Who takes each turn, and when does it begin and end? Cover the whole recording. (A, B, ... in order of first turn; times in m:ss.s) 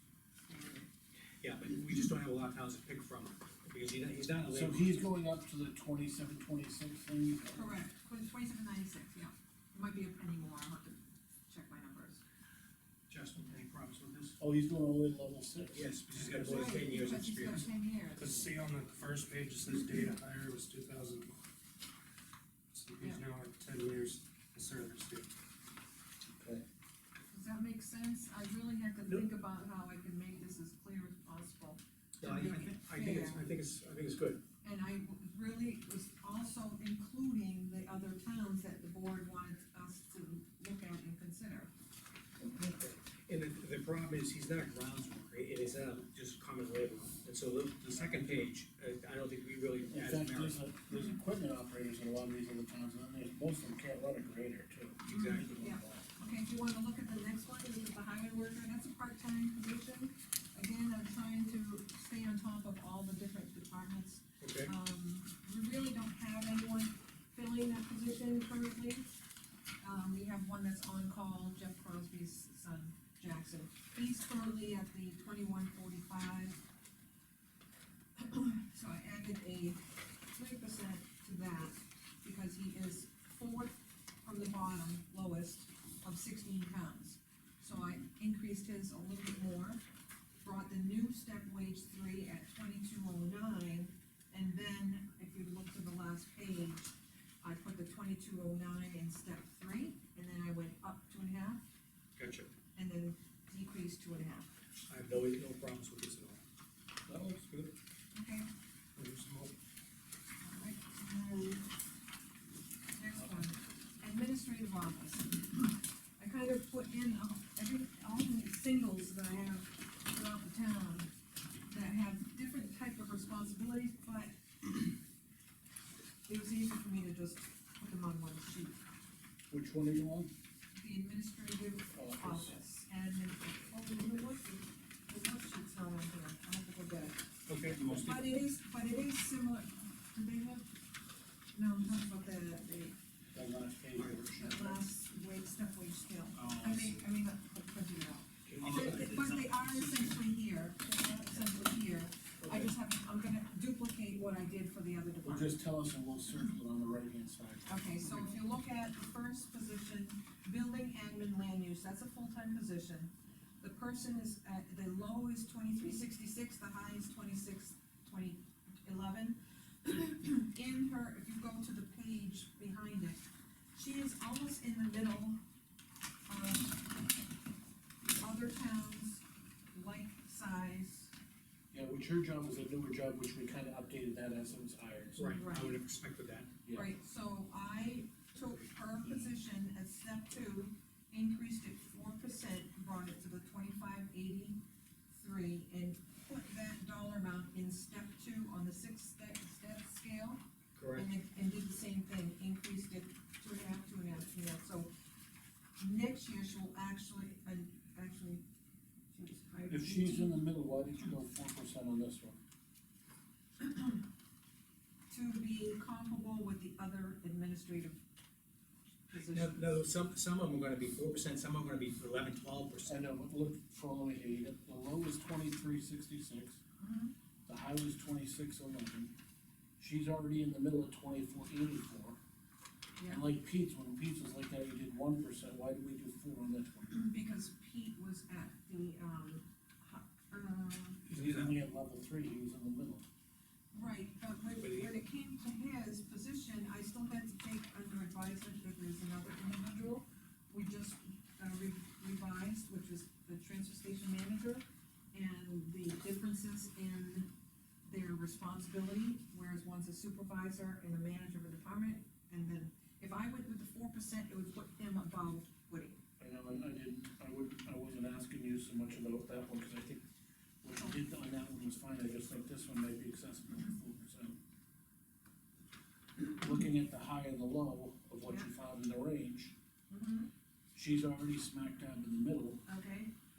0:00.4-0:00.9 A
0:01.4-0:05.0 B
0:04.5-0:07.7 C
0:07.5-0:12.2 A
0:13.1-0:14.4 B
0:14.4-0:15.9 C
0:15.7-0:17.6 B
0:16.1-0:16.7 D
0:16.4-0:18.5 A
0:18.1-0:21.4 D
0:22.7-0:25.3 D
0:26.3-0:26.6 C
0:27.3-0:33.5 A
0:32.2-0:34.4 B
0:34.6-0:41.7 A
0:42.4-0:50.6 B
0:49.9-0:56.1 C
0:55.1-0:55.5 B
0:55.6-1:09.1 A
1:04.4-1:04.7 B
1:09.8-1:16.6 A
1:18.2-1:29.8 A
1:30.4-1:41.6 A
1:42.2-1:42.5 B
1:42.7-1:44.5 A
1:44.9-1:46.4 B
1:47.1-1:47.4 C
1:47.4-1:47.7 B
1:48.1-1:48.5 A
1:49.0-1:49.5 D
1:50.4-1:51.6 A
1:52.9-2:01.1 A
2:01.7-2:04.9 A
2:06.3-2:08.8 A
2:09.5-2:10.3 C
2:10.7-2:17.2 A
2:11.9-2:12.5 C
2:17.4-2:18.2 B
2:17.9-2:20.7 A
2:21.5-2:23.0 A
2:23.3-2:24.8 C
2:24.3-2:35.6 A
2:26.7-2:26.9 D
2:28.4-2:29.5 B
2:35.2-2:38.3 C
2:37.6-2:53.2 A
2:53.7-2:55.4 A
2:56.3-2:57.0 A
2:58.1-3:01.1 A
3:01.7-3:05.3 C
3:05.2-3:06.5 B
3:05.2-3:05.8 A
3:06.7-3:14.6 A
3:15.1-3:20.4 A
3:20.7-3:21.1 B
3:20.9-3:24.9 A
3:25.8-3:28.4 A
3:29.1-3:30.4 A
3:29.7-3:32.4 C
3:33.6-3:34.0 A
3:35.1-3:38.0 A
3:39.1-3:39.6 A
3:39.2-3:43.0 B
3:42.8-3:46.6 C
3:46.8-3:47.1 A
3:47.4-3:49.1 C
3:49.8-3:52.2 C
3:53.0-3:53.2 A
3:53.0-3:57.0 C
3:56.9-4:01.0 A
4:01.1-4:03.0 C
4:01.1-4:01.5 B
4:03.7-4:17.3 A
4:04.6-4:04.9 B
4:17.8-4:26.0 A
4:26.2-4:30.0 C
4:30.6-4:34.4 C
4:36.2-4:39.5 C
4:39.9-4:40.3 A
4:40.7-4:42.6 C
4:42.6-4:43.1 A